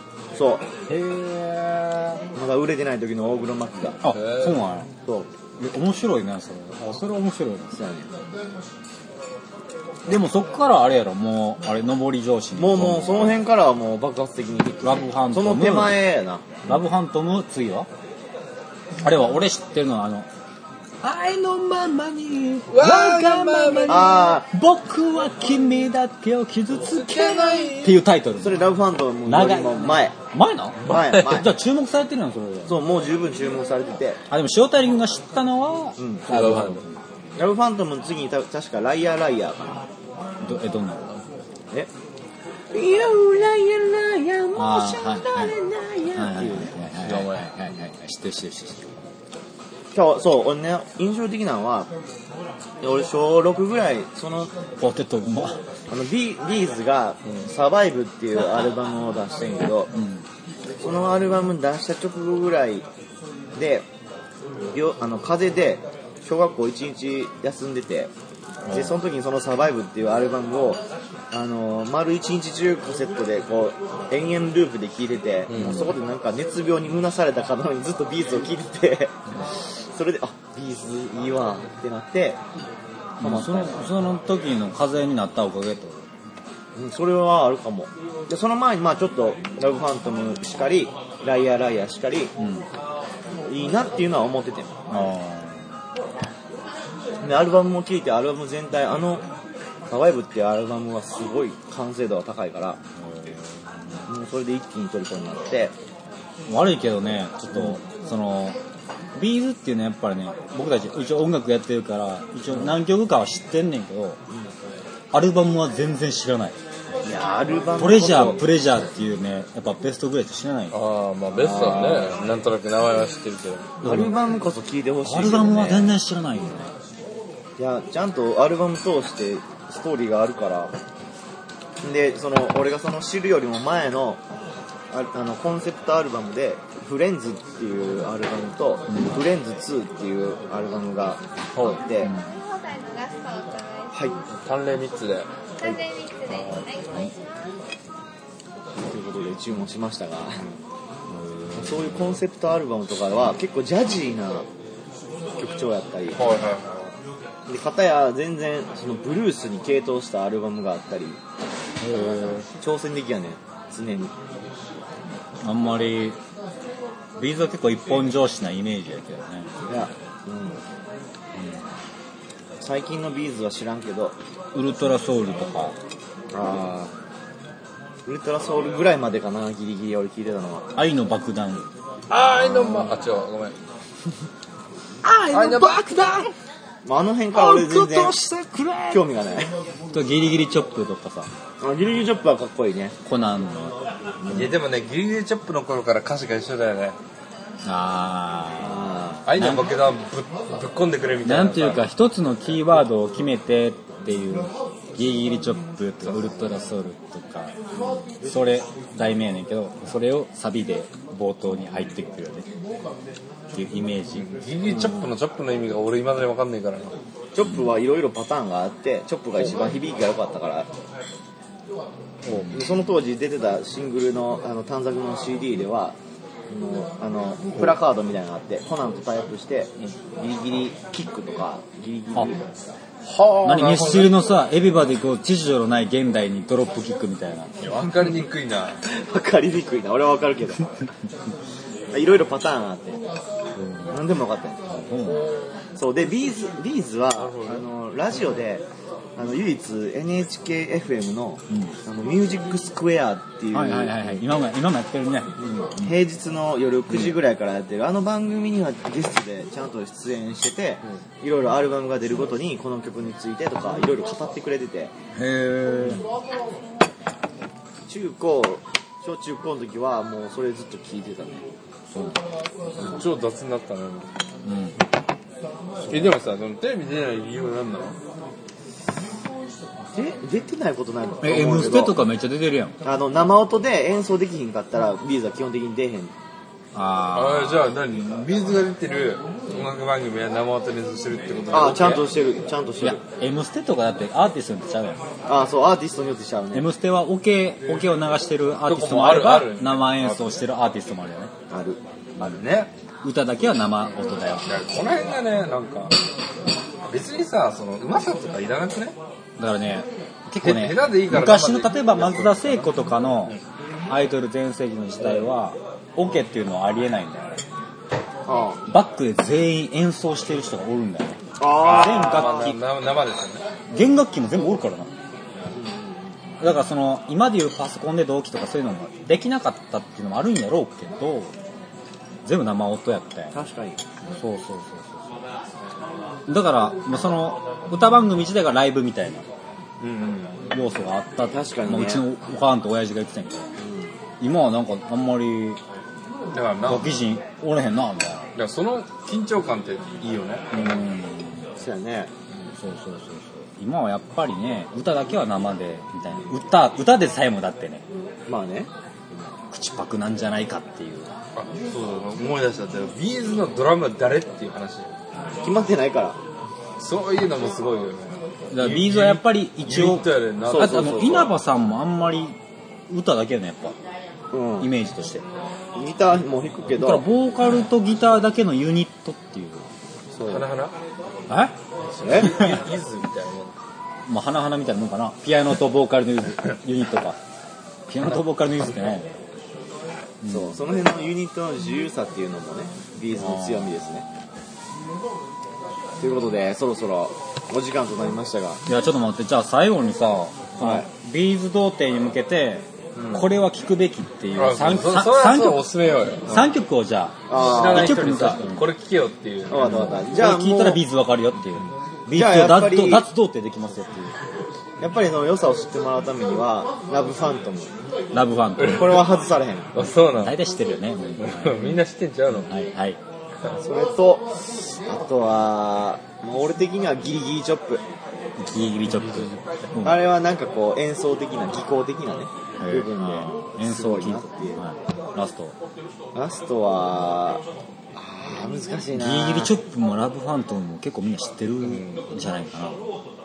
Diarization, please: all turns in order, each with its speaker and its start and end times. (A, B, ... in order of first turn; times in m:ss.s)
0:00.3-0:00.7 A
0:00.9-0:02.2 B
0:02.3-0:04.0 A
0:04.0-0:04.9 C
0:04.1-0:04.6 B
0:05.0-0:05.3 A
0:05.6-0:07.8 C
0:07.7-0:08.1 A
0:10.0-0:13.4 C
0:12.6-0:16.8 A
0:14.8-0:16.0 C
0:16.6-0:17.9 C
0:19.0-0:20.3 C
0:21.0-0:28.6 C
0:22.7-0:24.1 B
0:23.9-0:24.5 A
0:26.8-0:28.0 B
0:28.4-0:30.1 A
0:29.2-0:32.8 C
0:30.8-0:31.5 B
0:30.9-0:31.6 A
0:32.7-0:34.2 A
0:34.3-0:37.0 C
0:36.0-0:36.6 A
0:36.3-0:36.8 B
0:37.4-0:39.9 A
0:40.4-0:41.2 C
0:42.7-0:46.8 A
0:44.5-0:49.0 C
0:47.0-0:47.5 B
0:49.9-0:51.9 A
0:52.8-0:54.5 A
0:54.8-0:55.6 C
0:55.9-0:59.9 A
0:59.9-1:00.3 C
1:00.8-1:02.9 A
1:03.5-1:03.9 A
1:04.7-1:08.1 A
1:08.7-1:08.9 B
1:08.7-1:22.4 A
1:15.5-1:15.9 B
1:23.2-1:26.1 C
1:23.2-1:23.9 A
1:26.8-1:32.4 A
1:32.4-1:32.7 C
1:33.5-1:34.7 A
1:34.9-1:35.8 C
1:37.2-1:39.2 A
1:39.9-1:42.8 A
1:43.0-1:44.1 C
1:44.1-1:45.8 A
1:46.5-1:48.6 C
1:47.5-1:47.8 A
1:49.2-1:54.2 C
1:55.1-1:56.6 C
1:57.0-1:58.5 A
1:57.8-2:00.8 C
2:00.7-2:03.8 B
2:01.4-2:02.2 A
2:03.8-2:04.1 C
2:03.8-2:06.0 A
2:05.0-2:06.7 C
2:07.6-2:10.7 A
2:11.8-2:14.2 A
2:14.9-2:22.1 A
2:18.9-2:19.1 C
2:21.5-2:21.8 B
2:22.0-2:22.4 C
2:22.3-2:24.1 D
2:23.9-2:24.2 A
2:24.3-2:25.3 B
2:25.6-2:27.5 D
2:28.7-2:30.4 A
2:31.1-2:32.2 C
2:31.5-2:34.5 A
2:35.4-2:36.4 A
2:36.2-2:37.0 B
2:37.5-2:41.2 A
2:41.9-2:42.5 B
2:41.9-2:44.1 A
2:45.4-2:46.2 C
2:47.2-2:49.5 C
2:49.7-2:50.6 A
2:51.4-2:51.7 C
2:52.6-2:54.2 A
2:54.5-2:55.8 C
2:56.3-2:56.9 A
2:58.0-3:00.7 A
3:00.8-3:01.7 C
3:02.1-3:03.6 B
3:02.4-3:02.9 A
3:05.0-3:06.3 C
3:05.3-3:05.8 B
3:06.8-3:08.2 A
3:07.3-3:09.0 C
3:08.9-3:09.5 A
3:09.9-3:11.3 C
3:11.6-3:13.0 A
3:13.0-3:13.8 C
3:14.2-3:14.6 A
3:14.3-3:17.0 B
3:17.6-3:19.7 C
3:18.6-3:19.2 A
3:19.2-3:21.9 B
3:21.2-3:27.5 C
3:28.2-3:32.5 C
3:33.5-3:34.9 C
3:34.1-3:37.0 B
3:37.4-3:40.7 A
3:37.4-3:37.7 C
3:42.2-3:42.6 C
3:42.3-3:46.0 A
3:46.5-3:52.5 A
3:53.0-3:54.2 B
3:53.4-3:57.9 C
3:57.6-3:58.8 B
3:58.8-4:00.6 A
4:01.9-4:03.0 A
4:03.6-4:04.0 C
4:03.9-4:04.6 A
4:04.7-4:05.3 C
4:05.0-4:05.5 B
4:05.8-4:14.2 A
4:07.1-4:07.6 B
4:11.5-4:11.8 C
4:13.5-4:16.0 C
4:15.4-4:24.9 A
4:25.1-4:26.0 C
4:27.9-4:31.5 A
4:31.9-4:32.2 C
4:32.8-4:34.1 B
4:34.4-4:34.8 C
4:35.9-4:38.0 B
4:39.9-4:42.0 A
4:41.2-4:42.8 C
4:42.8-4:46.1 A
4:46.7-4:47.6 C
4:47.1-4:52.0 B
4:51.5-4:53.0 A
4:52.8-4:55.0 C
4:55.2-4:56.7 A
4:56.5-5:01.3 C
4:58.6-5:00.2 B
5:01.5-5:01.8 A
5:02.2-5:02.7 B
5:03.0-5:05.2 C
5:04.4-5:06.0 B
5:06.9-5:09.0 B
5:09.4-5:17.4 C
5:10.4-5:12.8 B
5:18.2-5:18.6 A
5:18.7-5:22.6 C
5:21.4-5:22.5 A
5:21.6-5:23.4 B
5:23.7-5:24.9 C
5:25.5-5:26.6 A
5:26.4-5:31.4 C
5:32.2-5:33.4 C
5:33.3-5:34.1 A
5:34.2-5:35.2 C
5:36.3-5:39.3 C
5:39.8-5:40.4 B
5:40.5-5:43.5 C
5:41.3-5:42.1 A
5:43.6-5:43.9 A
5:44.2-5:45.6 C
5:46.3-5:47.0 B
5:46.6-5:48.3 C
5:48.4-5:50.7 B
5:50.5-5:51.5 C
5:51.6-5:52.1 A
5:52.5-5:57.9 C
5:58.3-5:58.7 A
5:59.5-6:01.1 C
6:01.4-6:04.9 B
6:05.4-6:06.2 A
6:06.8-6:11.2 B
6:08.5-6:12.4 C
6:10.4-6:11.4 A
6:12.9-6:13.8 C
6:14.3-6:14.7 A
6:14.6-6:15.2 C
6:15.8-6:17.0 A
6:16.7-6:19.7 C
6:20.2-6:20.4 A
6:20.2-6:20.8 B
6:21.3-6:21.6 C
6:21.9-6:23.6 B
6:22.0-6:22.4 A
6:22.2-6:22.6 C
6:24.1-6:27.2 C
6:27.9-6:29.1 C
6:30.2-6:30.6 C
6:30.3-6:34.0 A
6:33.2-6:33.7 C
6:36.0-6:38.6 A
6:38.7-6:45.7 C
6:40.6-6:40.9 A
6:43.0-6:43.2 A
6:44.4-6:46.5 B
6:46.3-6:48.7 C
6:47.3-6:48.3 A
6:47.3-6:50.0 B
6:49.5-6:50.8 A
6:49.5-6:54.1 C
6:52.1-6:53.1 A
6:54.8-6:57.8 A
6:58.1-6:59.1 C
6:58.6-6:59.1 B
6:58.7-6:59.8 A
6:59.7-7:00.4 B
7:00.1-7:01.8 C
7:01.2-7:02.5 B
7:02.3-7:03.0 C
7:03.6-7:04.3 A
7:04.9-7:07.8 A
7:08.4-7:10.0 C
7:09.8-7:14.6 A
7:12.6-7:15.6 C
7:16.1-7:17.4 A
7:17.9-7:19.5 A
7:18.9-7:22.8 C
7:21.7-7:22.0 B